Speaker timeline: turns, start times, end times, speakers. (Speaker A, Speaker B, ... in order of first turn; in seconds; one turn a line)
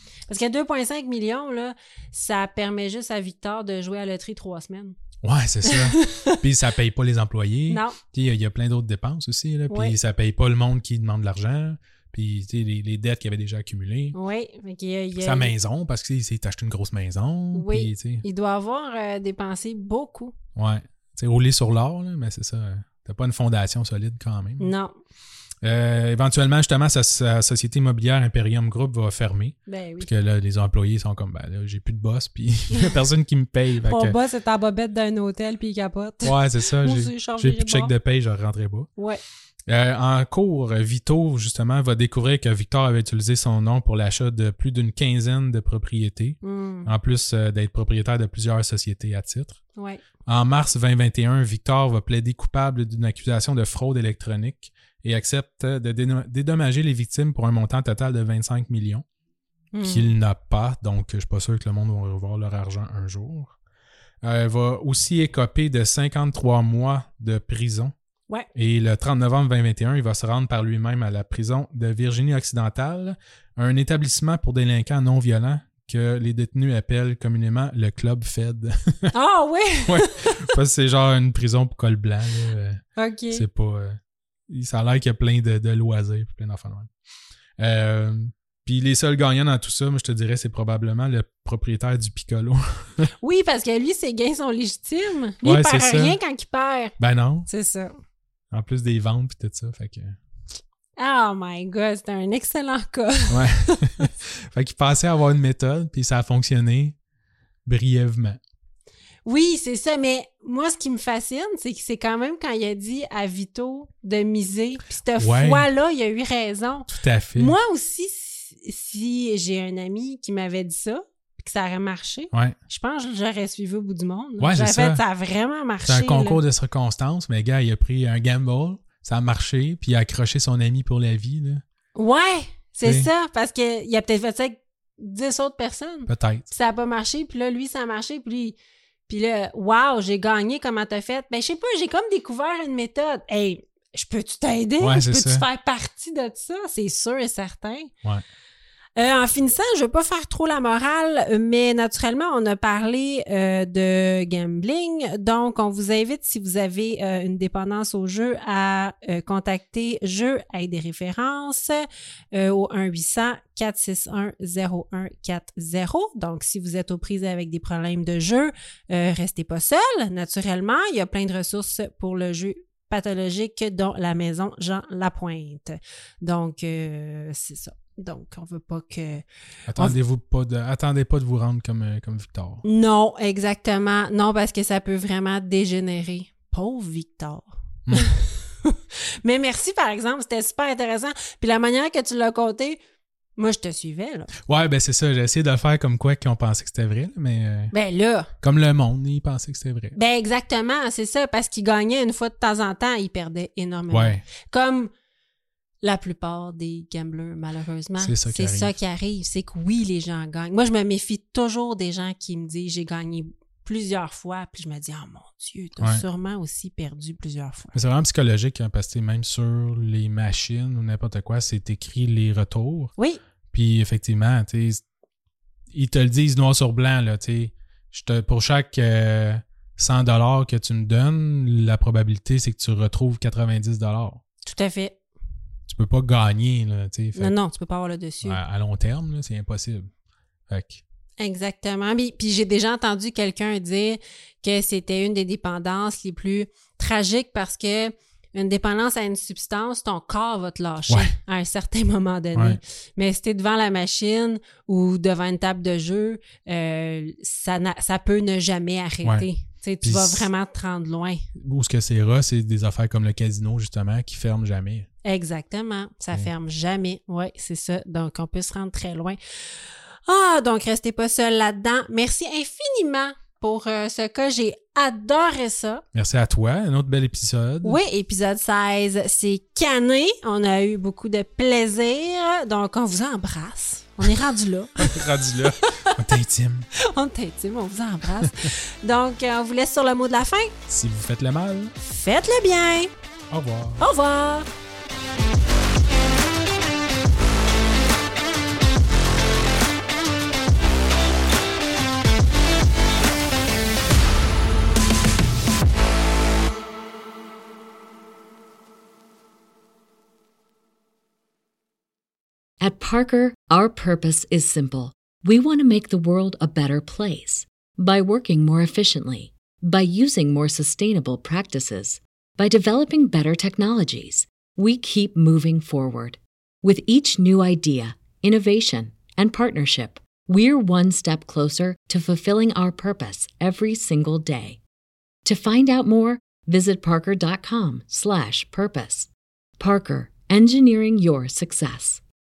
Speaker A: 0.3-4.9
Speaker B: 5.2-14.2
Speaker A: 5.7-6.4
Speaker A: 7.7-8.0
Speaker A: 9.7-9.9
Speaker A: 14.1-15.5
Speaker B: 15.2-18.2
Speaker A: 17.5-20.3
Speaker B: 20.6-24.7
Speaker A: 24.6-24.9
Speaker B: 25.6-34.1
Speaker A: 29.7-30.1
Speaker A: 33.8-37.9
Speaker B: 36.2-38.9
Speaker A: 39.0-39.2
Speaker B: 39.6-49.6
Speaker A: 46.4-46.9
Speaker A: 49.8-50.0
Speaker B: 50.3-59.0
Speaker A: 59.7-60.1
Speaker B: 59.8-63.6
Speaker B: 64.2-67.9
Speaker B: 68.5-79.1
Speaker A: 79.1-80.4
Speaker B: 79.8-86.9
Speaker A: 83.0-83.4
Speaker B: 87.6-93.1
Speaker A: 93.2-96.9
Speaker B: 95.4-96.2
Speaker B: 97.0-97.5
Speaker A: 97.5-97.9
Speaker B: 98.5-100.2
Speaker A: 101.0-103.8
Speaker B: 103.3-107.0
Speaker B: 107.7-108.4
Speaker A: 109.3-126.4
Speaker B: 115.2-115.7
Speaker B: 116.9-117.5
Speaker B: 122.3-122.6
Speaker B: 124.4-125.0
Speaker B: 125.8-131.6
Speaker A: 131.9-138.6
Speaker B: 132.8-133.1
Speaker B: 136.1-136.5
Speaker A: 139.1-147.9
Speaker B: 144.8-145.4
Speaker A: 148.9-179.2
Speaker B: 179.7-182.6
Speaker A: 182.6-192.8
Speaker A: 193.4-194.3
Speaker B: 194.4-197.7
Speaker A: 197.7-198.3
Speaker B: 198.4-200.0
Speaker A: 199.9-204.9
Speaker B: 203.9-204.2
Speaker A: 205.8-217.8
Speaker B: 208.0-208.8
Speaker B: 217.7-222.9
Speaker B: 223.5-224.8
Speaker B: 225.7-234.2
Speaker A: 234.4-235.0
Speaker B: 235.7-237.3
Speaker A: 237.2-238.4
Speaker B: 238.2-239.9
Speaker B: 240.5-240.8
Speaker A: 241.2-261.3
Speaker B: 250.9-251.1
Speaker B: 252.3-252.6
Speaker B: 259.0-259.3
Speaker B: 259.8-260.3
Speaker B: 261.4-264.9
Speaker A: 265.0-269.2
Speaker A: 270.1-275.8
Speaker B: 275.9-277.8
Speaker A: 277.6-285.0
Speaker B: 284.8-286.7
Speaker A: 286.8-290.5
Speaker B: 288.2-288.5
Speaker B: 290.7-291.7
Speaker A: 291.8-292.9
Speaker B: 293.3-293.8
Speaker A: 293.8-294.5
Speaker C: 312.6-334.6
Speaker C: 335.2-342.0